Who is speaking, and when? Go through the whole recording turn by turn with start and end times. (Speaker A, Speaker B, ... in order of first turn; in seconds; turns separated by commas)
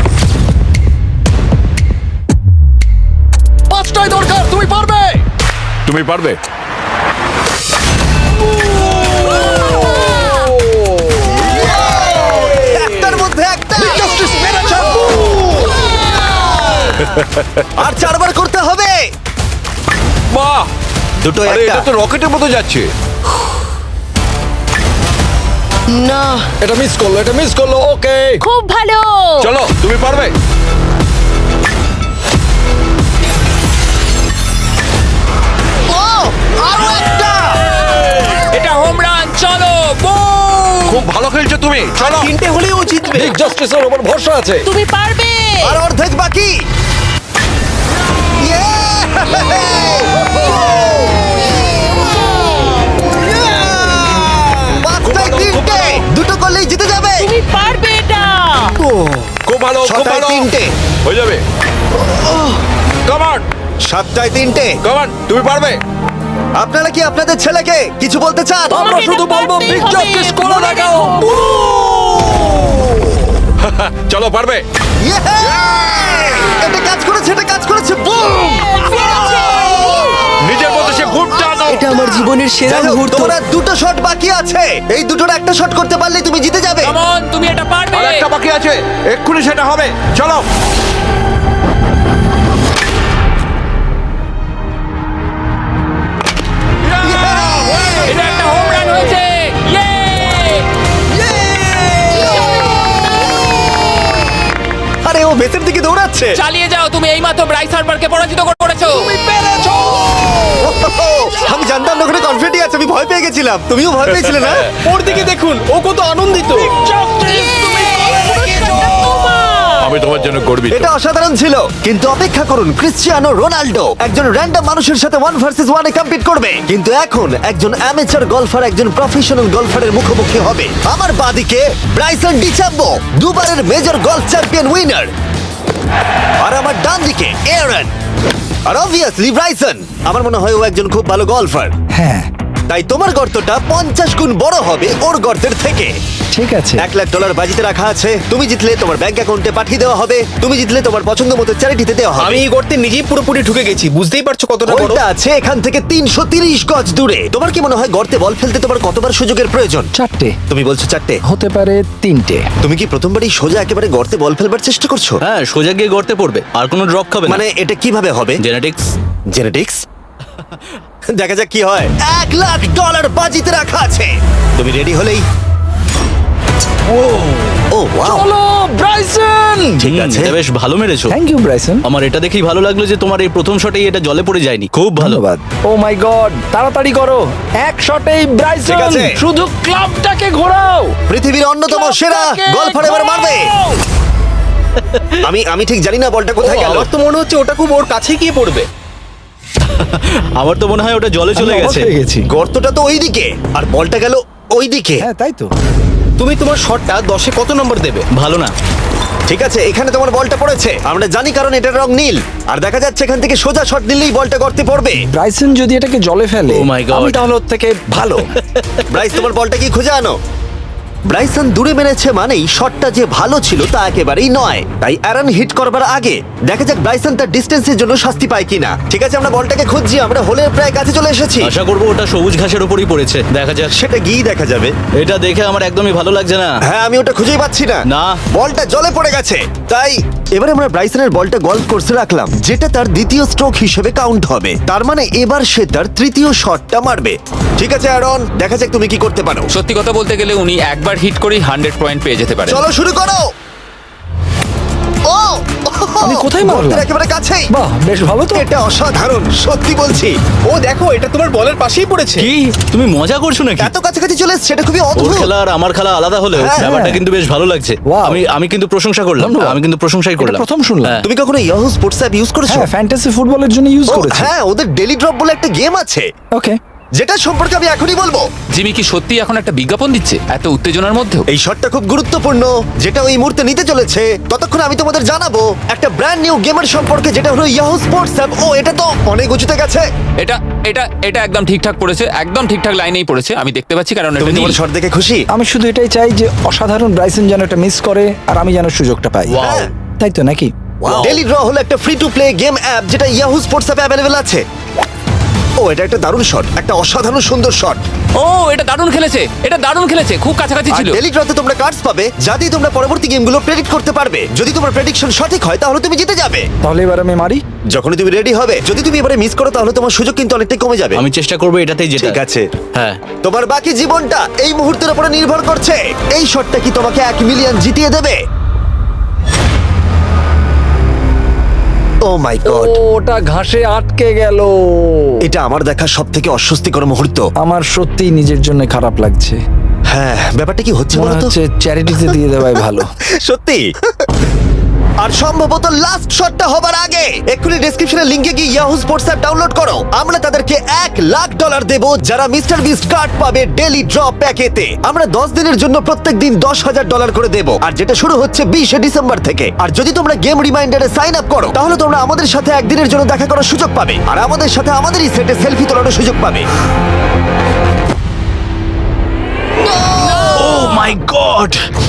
Speaker A: 3.7-5.2, Speaker B: 5.9-6.4, Speaker C: 11.5-14.2, Speaker B: 12.3-12.8, Speaker A: 13.8-15.4, Speaker B: 14.0-15.4, Speaker D: 16.3-16.9, Speaker B: 17.0-17.7, Speaker C: 17.8-19.1, Speaker B: 20.3-20.7, Speaker C: 21.2-21.9, Speaker B: 21.4-22.9, Speaker D: 25.9-26.4, Speaker A: 26.6-28.4, Speaker E: 28.4-29.5, Speaker B: 29.4-30.3, Speaker C: 35.9-37.6, Speaker F: 38.5-41.1, Speaker B: 40.9-42.3, Speaker G: 42.0-43.4, Speaker A: 43.1-44.7, Speaker E: 44.6-45.8, Speaker C: 45.6-46.5, Speaker C: 48.4-51.8, Speaker C: 54.7-57.3, Speaker B: 55.0-56.0, Speaker E: 57.2-58.7, Speaker C: 58.9-59.2, Speaker B: 59.4-60.5, Speaker C: 59.8-60.7, Speaker B: 61.0-61.4, Speaker B: 63.1-63.5, Speaker C: 63.9-64.8, Speaker B: 64.8-65.8, Speaker C: 66.6-68.8, Speaker A: 68.7-72.3, Speaker E: 68.7-71.4, Speaker B: 73.6-74.6, Speaker C: 75.0-80.0, Speaker E: 78.8-80.1, Speaker D: 79.7-80.0, Speaker B: 80.4-82.2, Speaker D: 81.6-83.4, Speaker C: 82.7-86.9, Speaker F: 86.8-88.3, Speaker B: 87.9-90.5, Speaker C: 97.0-98.2, Speaker B: 97.0-98.1, Speaker F: 98.1-100.7, Speaker D: 102.1-102.7, Speaker C: 105.0-106.4, Speaker F: 106.3-109.1, Speaker C: 110.6-114.7, Speaker B: 114.2-114.5, Speaker G: 114.8-116.8, Speaker A: 116.7-118.9, Speaker E: 117.2-120.1, Speaker B: 119.8-120.9, Speaker C: 120.7-135.1, Speaker C: 136.4-137.9, Speaker C: 138.7-141.7, Speaker A: 141.9-142.3, Speaker C: 142.7-145.9, Speaker A: 146.3-146.8, Speaker C: 146.8-152.4, Speaker G: 152.2-155.0, Speaker C: 154.7-159.9, Speaker A: 159.9-160.4, Speaker C: 160.5-161.2, Speaker A: 161.2-162.5, Speaker C: 162.6-165.2, Speaker H: 165.2-167.4, Speaker C: 167.3-168.4, Speaker H: 168.4-168.9, Speaker C: 169.3-169.8, Speaker C: 171.2-175.2, Speaker A: 176.9-177.4, Speaker C: 177.7-178.2, Speaker A: 178.0-179.8, Speaker C: 179.8-180.4, Speaker H: 179.9-181.2, Speaker A: 181.1-181.8, Speaker H: 181.8-185.2, Speaker A: 185.0-191.0, Speaker C: 188.7-189.2, Speaker C: 191.1-193.5, Speaker A: 191.7-193.8, Speaker C: 195.2-196.9, Speaker G: 196.4-198.7, Speaker H: 199.7-201.9, Speaker A: 201.3-202.2, Speaker C: 202.3-205.1, Speaker A: 205.0-205.5, Speaker G: 206.2-208.1, Speaker H: 208.1-208.5, Speaker C: 209.3-215.0, Speaker A: 215.1-218.3, Speaker H: 216.5-217.2, Speaker C: 218.9-220.2, Speaker C: 221.1-231.5, Speaker H: 231.4-233.8, Speaker C: 233.7-234.7, Speaker H: 235.0-236.6, Speaker C: 236.7-249.5, Speaker H: 237.9-238.2, Speaker F: 249.5-252.6, Speaker C: 252.5-253.2, Speaker C: 255.1-257.5, Speaker A: 256.0-256.9, Speaker A: 257.5-258.5, Speaker C: 258.3-260.2, Speaker G: 260.4-262.3, Speaker H: 262.2-263.7, Speaker C: 263.6-265.3, Speaker H: 265.0-271.1, Speaker C: 266.4-266.8, Speaker A: 266.6-267.1, Speaker A: 267.9-268.2, Speaker A: 269.2-269.6, Speaker A: 270.2-271.0, Speaker C: 271.0-272.7, Speaker A: 272.5-274.3, Speaker C: 273.9-276.1, Speaker C: 277.0-278.3, Speaker F: 278.5-281.2, Speaker C: 281.3-289.9, Speaker F: 290.2-294.6, Speaker C: 294.2-295.2, Speaker A: 295.3-299.4, Speaker H: 299.3-299.6, Speaker C: 299.4-299.7, Speaker A: 300.0-300.5, Speaker C: 300.8-304.4, Speaker H: 300.9-301.2, Speaker C: 305.6-307.8, Speaker F: 308.2-311.0, Speaker C: 310.7-316.5, Speaker A: 316.6-317.4, Speaker C: 317.7-321.0, Speaker H: 321.0-322.2, Speaker C: 322.0-322.5, Speaker H: 322.7-323.0, Speaker C: 323.2-328.2, Speaker C: 332.1-332.8, Speaker A: 332.4-335.2, Speaker C: 335.2-337.3, Speaker A: 337.4-339.4, Speaker C: 339.9-341.3, Speaker A: 340.9-342.9, Speaker C: 343.2-343.7, Speaker C: 345.0-366.5, Speaker C: 369.7-370.4, Speaker E: 370.1-370.5, Speaker H: 370.3-371.6